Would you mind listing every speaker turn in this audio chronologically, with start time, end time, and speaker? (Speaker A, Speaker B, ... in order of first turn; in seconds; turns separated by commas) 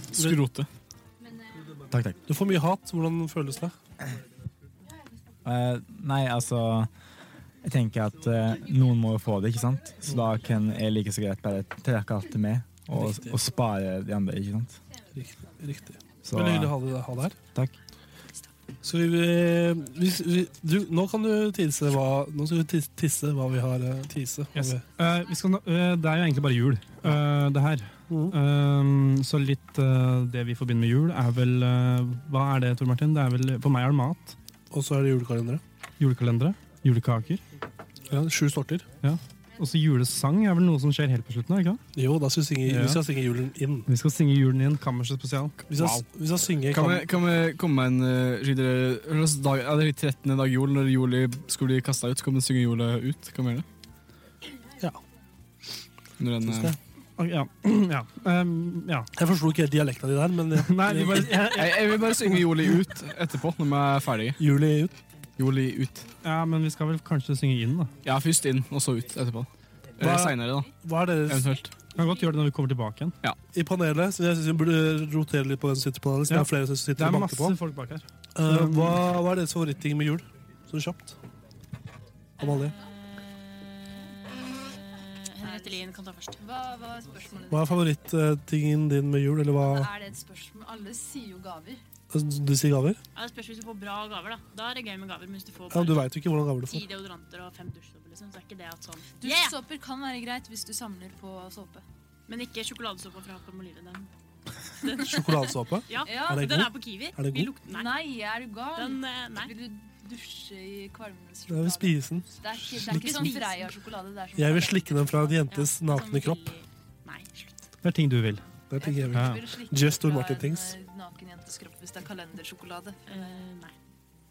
Speaker A: 0.1-0.7, Speaker B: 1.9-2.2, Speaker C: 2.3-3.8, Speaker B: 5.4-6.9, Speaker B: 7.6-14.8, Speaker C: 15.2-17.4, Speaker B: 16.2-16.8, Speaker C: 18.8-24.8, Speaker D: 24.6-34.4, Speaker C: 28.1-28.4, Speaker C: 34.7-35.6, Speaker D: 36.0-37.4, Speaker C: 38.1-38.9, Speaker D: 39.0-41.8, Speaker C: 41.9-43.9, Speaker D: 42.7-43.0, Speaker D: 43.9-45.9, Speaker C: 45.7-47.1, Speaker A: 46.7-53.7, Speaker A: 56.2-56.8, Speaker C: 56.4-56.8, Speaker D: 57.2-59.1, Speaker C: 59.2-61.5, Speaker D: 60.6-62.0, Speaker A: 61.4-64.4, Speaker C: 64.4-64.9, Speaker A: 65.4-66.1, Speaker D: 66.2-67.9, Speaker A: 68.0-70.7, Speaker C: 70.0-71.5, Speaker A: 71.3-71.7, Speaker D: 71.9-73.2, Speaker C: 73.5-77.6, Speaker D: 76.3-79.0, Speaker C: 78.4-81.2, Speaker C: 82.4-82.8, Speaker E: 84.6-86.4, Speaker F: 85.4-87.9, Speaker C: 87.5-89.9, Speaker F: 89.6-91.8, Speaker C: 92.1-93.0, Speaker E: 93.1-99.6, Speaker C: 95.7-96.8, Speaker F: 99.2-101.8, Speaker E: 102.3-104.1, Speaker E: 104.8-108.1, Speaker C: 105.0-107.5, Speaker F: 106.0-106.5, Speaker F: 107.6-115.5, Speaker E: 108.8-109.5, Speaker C: 111.5-113.4, Speaker E: 112.8-113.7, Speaker C: 114.3-116.5, Speaker E: 115.5-117.6, Speaker D: 117.8-118.4, Speaker C: 118.7-120.7, Speaker F: 118.8-123.4, Speaker D: 119.1-119.4, Speaker E: 123.1-123.7